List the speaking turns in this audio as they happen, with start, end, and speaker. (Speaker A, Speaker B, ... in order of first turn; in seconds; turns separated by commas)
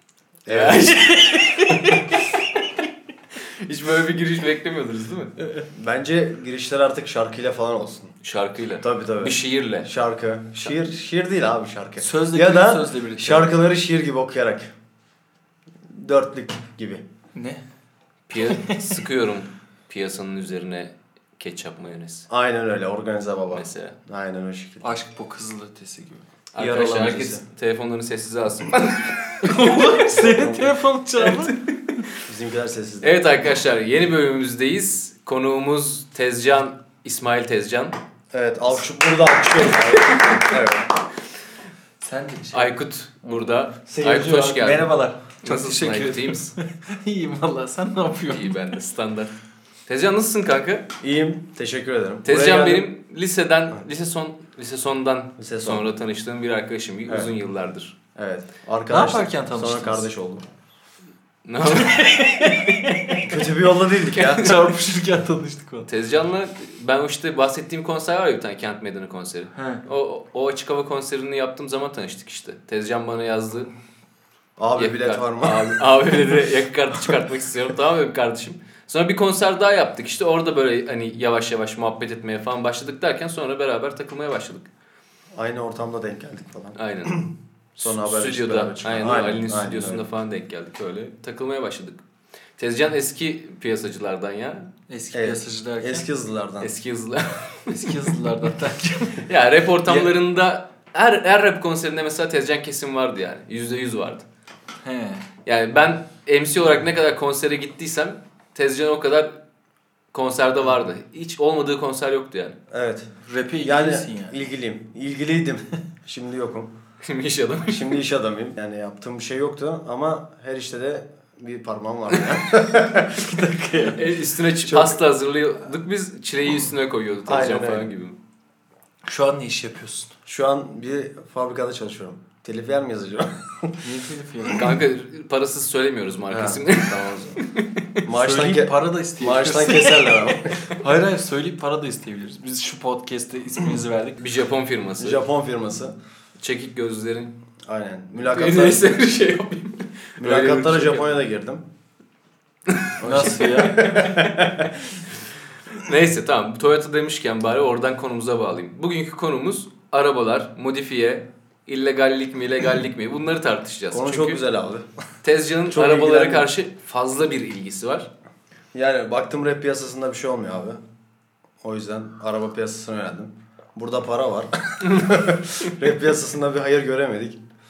Speaker A: 0.4-1.0, Speaker B: 0.5-2.3, Speaker C: 1.3-2.0, Speaker B: 3.6-5.3, Speaker A: 5.7-8.1, Speaker B: 8.2-9.9, Speaker A: 8.8-14.7, Speaker C: 12.0-13.5, Speaker A: 15.9-17.0, Speaker C: 17.3-17.6, Speaker B: 18.3-22.3, Speaker C: 18.5-18.8, Speaker A: 22.3-24.9, Speaker B: 23.5-23.9, Speaker C: 24.8-26.2, Speaker B: 26.5-29.9, Speaker A: 26.6-27.4, Speaker C: 29.4-31.6, Speaker A: 30.1-30.7, Speaker A: 32.3-33.3, Speaker B: 33.0-38.0, Speaker A: 38.3-40.9, Speaker C: 42.0-42.7, Speaker B: 42.5-44.9, Speaker A: 43.9-44.7, Speaker C: 44.0-48.7, Speaker B: 45.4-46.5, Speaker B: 48.3-49.3, Speaker B: 49.9-50.9, Speaker A: 51.0-52.9, Speaker B: 52.2-57.9, Speaker A: 55.4-55.9, Speaker A: 58.1-60.4, Speaker C: 58.9-60.1, Speaker B: 61.4-63.0, Speaker C: 61.6-63.3, Speaker A: 63.2-64.5, Speaker B: 64.2-64.5, Speaker C: 64.3-65.9, Speaker B: 65.8-73.7, Speaker C: 69.5-69.8, Speaker A: 74.6-75.8, Speaker B: 74.8-84.7, Speaker A: 85.3-87.3, Speaker B: 86.8-92.0, Speaker A: 87.8-90.0, Speaker B: 92.6-94.7, Speaker C: 94.9-96.0, Speaker A: 95.1-96.7, Speaker B: 96.6-98.2, Speaker C: 97.7-99.2, Speaker B: 99.2-104.2, Speaker C: 104.8-105.3, Speaker B: 105.4-109.3, Speaker B: 110.1-112.5, Speaker A: 112.7-113.1, Speaker C: 113.2-114.4, Speaker A: 113.6-116.7, Speaker B: 117.0-118.0, Speaker A: 117.7-123.1, Speaker C: 123.1-124.1, Speaker B: 124.0-128.2, Speaker A: 124.6-125.0, Speaker A: 127.3-127.9, Speaker C: 129.0-130.1, Speaker A: 130.2-133.9, Speaker C: 133.8-134.7, Speaker B: 134.5-137.7, Speaker A: 136.3-137.4, Speaker A: 138.0-140.6, Speaker C: 138.1-144.2, Speaker B: 144.2-145.2, Speaker A: 145.0-145.9, Speaker B: 146.4-147.3, Speaker A: 147.7-148.8, Speaker B: 148.2-151.1, Speaker A: 150.2-151.6, Speaker A: 153.0-154.7, Speaker C: 153.0-153.9, Speaker B: 155.7-164.4, Speaker A: 163.9-164.8, Speaker B: 165.2-168.1, Speaker A: 165.7-166.5, Speaker A: 168.7-170.8, Speaker A: 171.6-177.4